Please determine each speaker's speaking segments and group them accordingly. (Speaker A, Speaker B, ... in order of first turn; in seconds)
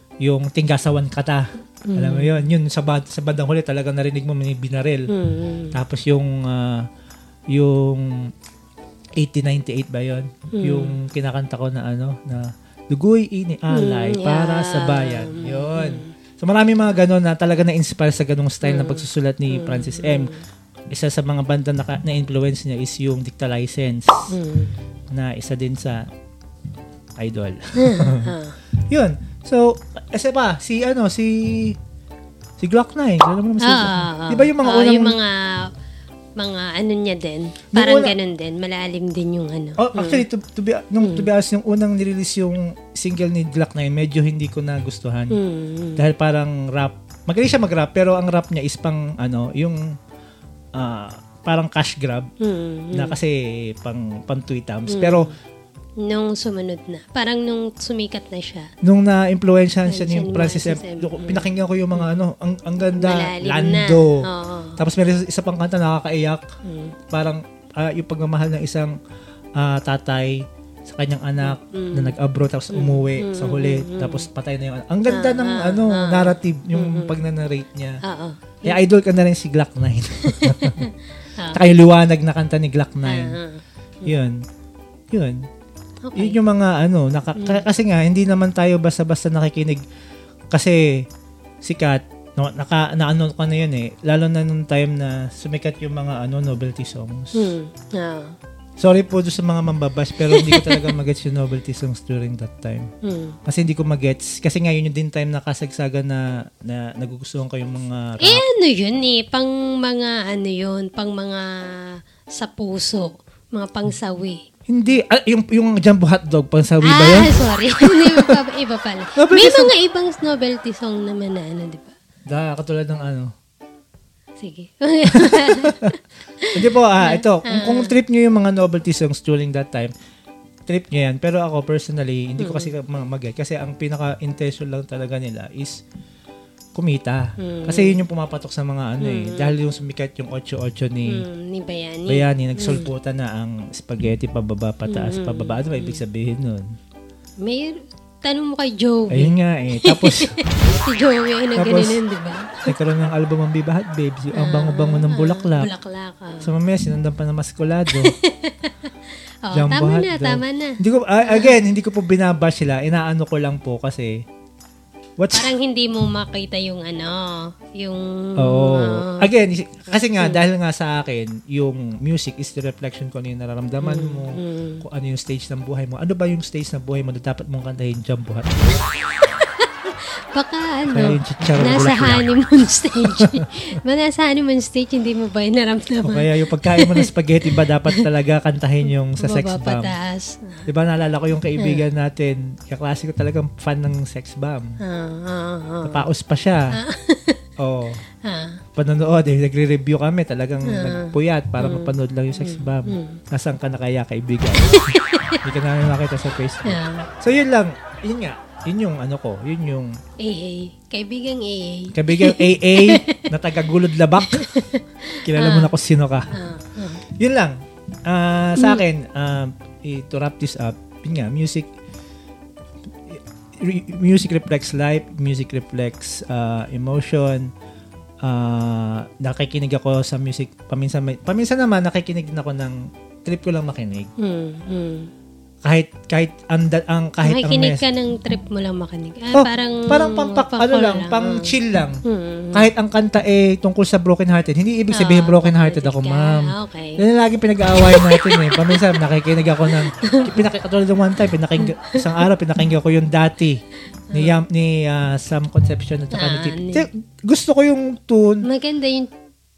Speaker A: 0.2-5.1, 5.7-6.9, 7.5-8.3, 9.2-20.3, 20.9-24.3, 25.1-26.1, 27.2-28.3, 28.9-31.8, 32.6-35.2, 37.7-38.1, 39.8-45.4, 46.0-49.9, 50.7-52.3, 52.9-55.2, 58.8-64.2, 64.8-66.4, 67.1-68.9, 69.6-78.0, 78.6-80.8, 81.5-83.3, 84.0-84.4, 85.1-85.4, 86.2-89.8, 90.5-91.0, 91.6-97.5, 98.8-102.9, 103.5-108.4, 114.7-117.3, 117.9-118.3, 119.2-119.7, 122.3-123.3, 125.1-125.9, 126.5-129.9, 130.7-135.8, 136.7-141.2, 142.1-146.6, 149.1-150.3, 151.6-152.0, 152.7-155.7, 156.4-158.1, 159.5-164.2, 165.2-165.5, 168.4-178.6, 180.9-182.3, 183.0-183.5, 186.0-189.9, 190.7-194.8, 195.8-196.8, 197.6-198.0, 198.8-209.9, 211.9-214.5, 215.2-216.3, 217.2-221.7, 223.1-227.5, 228.2-234.1, 235.6-237.8, 239.3-242.0, 242.5-253.6, 254.1-258.4
Speaker B: 1.9-2.4, 5.1-5.8, 10.5-10.9, 13.7-16.1, 18.6-20.4, 24.3-24.7, 27.8-28.6, 33.6-35.7, 36.4-40.2, 41.0-41.3, 45.3-46.0, 52.4-53.2, 54.9-55.3, 56.0-58.7, 59.9-62.2, 62.8-64.8, 66.6-66.9, 71.4-72.1, 72.7-74.2, 75.1-77.2, 78.0-78.8, 80.2-81.6, 83.0-84.2, 86.0-86.4, 87.3-87.6, 97.3-98.3, 100.2-100.9, 103.0-103.4, 108.2-114.5, 116.8-121.9, 124.4-127.9, 132.4-132.7, 137.4-138.0, 139.0-139.6, 141.1-142.9, 144.9-146.0, 147.4-152.7, 154.3-156.5, 157.9-158.9, 159.5-161.5, 165.3-169.3, 173.8-174.8, 178.8-188.1, 189.2-190.7, 191.6-191.8, 194.8-196.1, 196.7-197.4, 198.2-198.6, 200.7-203.2, 204.6-205.4, 206.6-207.1, 210.2-213.2, 214.2-215.7, 216.3-217.0, 218.6-218.8, 234.2-235.1, 237.2-241.5, 242.1-242.7, 244.9-247.0, 247.8-248.8, 249.9-250.3, 251.6-252.2, 254.1-254.4, 256.1-256.9, 258.4-259.1